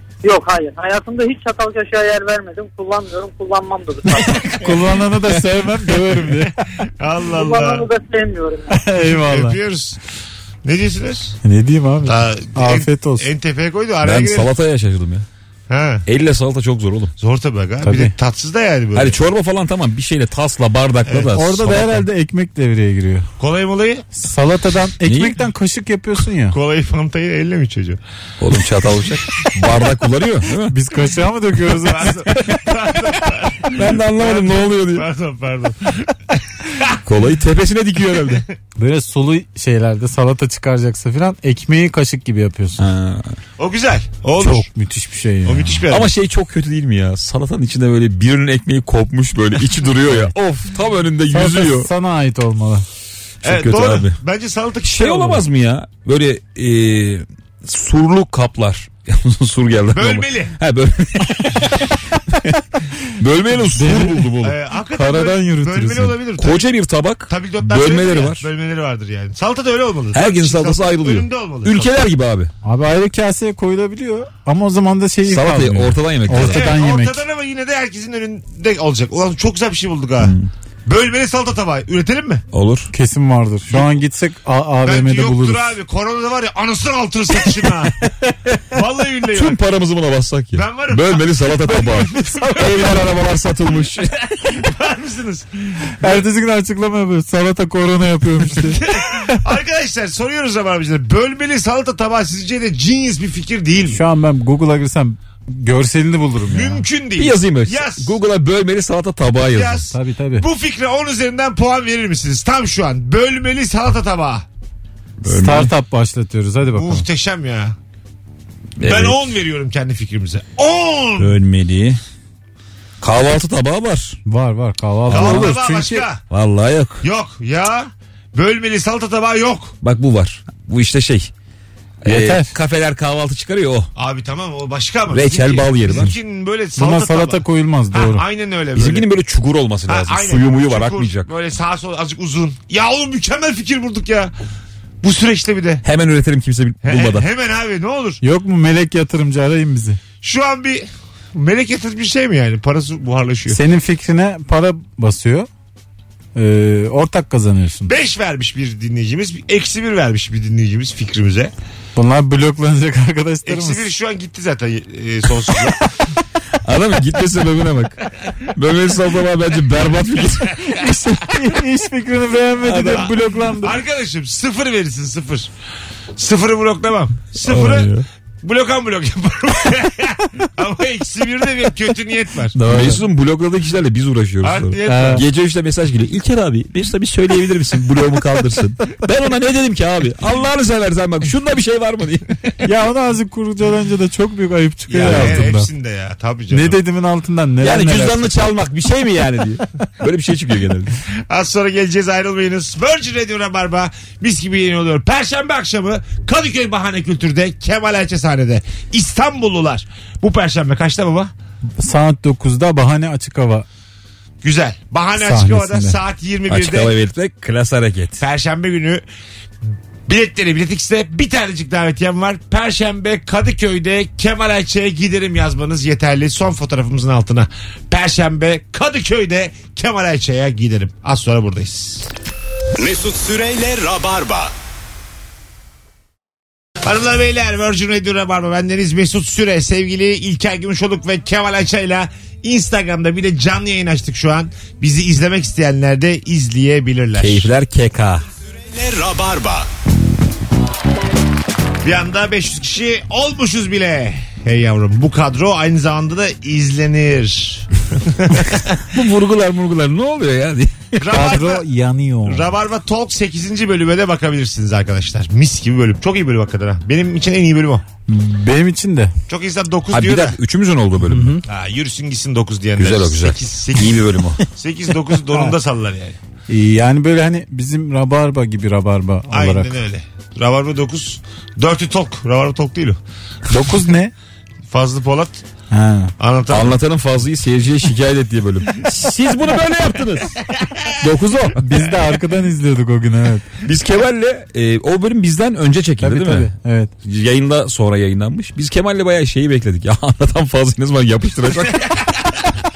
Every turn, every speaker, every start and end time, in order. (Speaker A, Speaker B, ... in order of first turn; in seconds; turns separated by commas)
Speaker A: 0.2-4.5, Speaker B: 4.5-6.6, Speaker C: 7.0-7.9, Speaker A: 7.3-8.8, Speaker B: 8.7-9.6, Speaker C: 9.1-10.0, Speaker C: 10.6-11.4, Speaker B: 11.4-13.2, Speaker C: 12.0-14.5, Speaker D: 14.0-15.2, Speaker C: 15.7-16.0, Speaker D: 16.1-17.1, Speaker C: 17.2-19.2, Speaker B: 17.8-18.1, Speaker D: 18.9-22.0, Speaker C: 21.1-21.3, Speaker B: 21.3-23.3, Speaker C: 23.4-24.1, Speaker B: 24.1-26.6, Speaker D: 25.0-25.4, Speaker C: 26.5-28.0, Speaker D: 28.4-30.8, Speaker B: 30.7-32.3, Speaker C: 31.8-37.0, Speaker D: 33.7-35.1, Speaker D: 37.0-38.5, Speaker B: 38.8-42.8, Speaker D: 42.8-43.4, Speaker C: 43.6-44.7, Speaker B: 44.4-45.8, Speaker C: 45.4-46.1, Speaker D: 45.9-51.9, Speaker B: 50.1-50.6, Speaker B: 51.3-52.9, Speaker D: 53.4-54.2, Speaker C: 53.4-55.4, Speaker D: 54.8-62.6, Speaker C: 59.9-60.5, Speaker D: 63.2-64.5, Speaker B: 63.7-64.3, Speaker C: 64.4-66.6, Speaker B: 64.9-66.2, Speaker D: 66.4-68.5, Speaker C: 67.3-71.9, Speaker D: 70.1-72.5, Speaker B: 72.6-77.2, Speaker D: 75.2-76.8, Speaker C: 76.4-80.3, Speaker D: 80.2-80.5, Speaker C: 80.9-82.4, Speaker D: 82.5-82.9, Speaker B: 82.9-85.8, Speaker C: 83.7-84.0, Speaker C: 84.8-88.1, Speaker C: 88.7-89.6, Speaker D: 89.3-94.2, Speaker C: 90.5-92.8, Speaker B: 92.6-92.9, Speaker C: 94.4-96.2, Speaker B: 96.0-99.4, Speaker C: 98.6-104.0, Speaker B: 103.9-106.8, Speaker C: 106.5-108.1, Speaker D: 107.2-109.9, Speaker C: 109.4-114.4, Speaker B: 109.9-110.5, Speaker D: 115.2-115.7, Speaker B: 115.2-117.0, Speaker C: 116.8-117.8, Speaker D: 118.8-119.3, Speaker C: 118.8-121.4, Speaker D: 121.2-122.0, Speaker D: 123.0-124.2, Speaker B: 124.2-126.0, Speaker D: 125.1-125.6, Speaker C: 125.1-126.2, Speaker D: 126.3-127.0, Speaker C: 127.0-129.8, Speaker D: 129.8-131.3, Speaker D: 132.0-133.9, Speaker B: 132.1-132.5, Speaker C: 133.9-139.1, Speaker D: 135.1-136.2, Speaker B: 136.8-138.2, Speaker D: 138.8-141.3, Speaker C: 139.9-144.3, Speaker C: 145.0-145.8, Speaker D: 145.8-147.3, Speaker C: 146.8-148.2, Speaker B: 148.2-150.0, Speaker C: 150.2-153.6, Speaker B: 153.5-155.5, Speaker B: 156.3-157.9, Speaker C: 157.9-161.5, Speaker B: 161.9-163.8, Speaker C: 163.4-165.8, Speaker D: 166.6-170.6, Speaker B: 170.7-173.8, Speaker D: 172.6-173.1, Speaker C: 173.0-175.5, Speaker C: 176.2-177.9, Speaker D: 177.4-178.0, Speaker C: 178.4-182.6, Speaker B: 182.5-183.0, Speaker D: 182.6-192.3, Speaker C: 184.4-185.2, Speaker B: 184.9-185.2, Speaker B: 192.6-195.7, Speaker C: 194.9-196.8, Speaker D: 195.0-195.4, Speaker B: 196.5-198.3, Speaker D: 197.6-200.9, Speaker C: 201.3-211.3, Speaker B: 211.8-213.7, Speaker C: 214.4-216.9, Speaker B: 215.2-216.0, Speaker D: 216.5-218.2, Speaker C: 218.2-219.0, Speaker C: 220.1-232.1, Speaker E: 232.8-234.5, Speaker C: 236.8-247.5, Speaker D: 247.1-248.2, Speaker E: 248.7-249.7, Speaker C: 251.8-258.8, Speaker D: 258.9-261.0, Speaker C: 261.0-261.6, Speaker B: 261.1-262.5, Speaker C: 262.2-267.8, Speaker B: 268.1-269.1, Speaker C: 269.3-270.4, Speaker D: 269.9-271.4, Speaker B: 271.1-271.4, Speaker C: 271.4-276.2, Speaker D: 272.8-274.4, Speaker B: 276.5-279.7, Speaker C: 279.3-283.0, Speaker B: 283.5-284.1, Speaker C: 284.7-285.4, Speaker B: 285.7-286.1, Speaker C: 286.2-286.8, Speaker D: 286.5-290.4, Speaker D: 291.0-291.7, Speaker B: 291.6-293.5, Speaker D: 293.6-296.5, Speaker B: 296.0-296.9, Speaker D: 297.0-302.1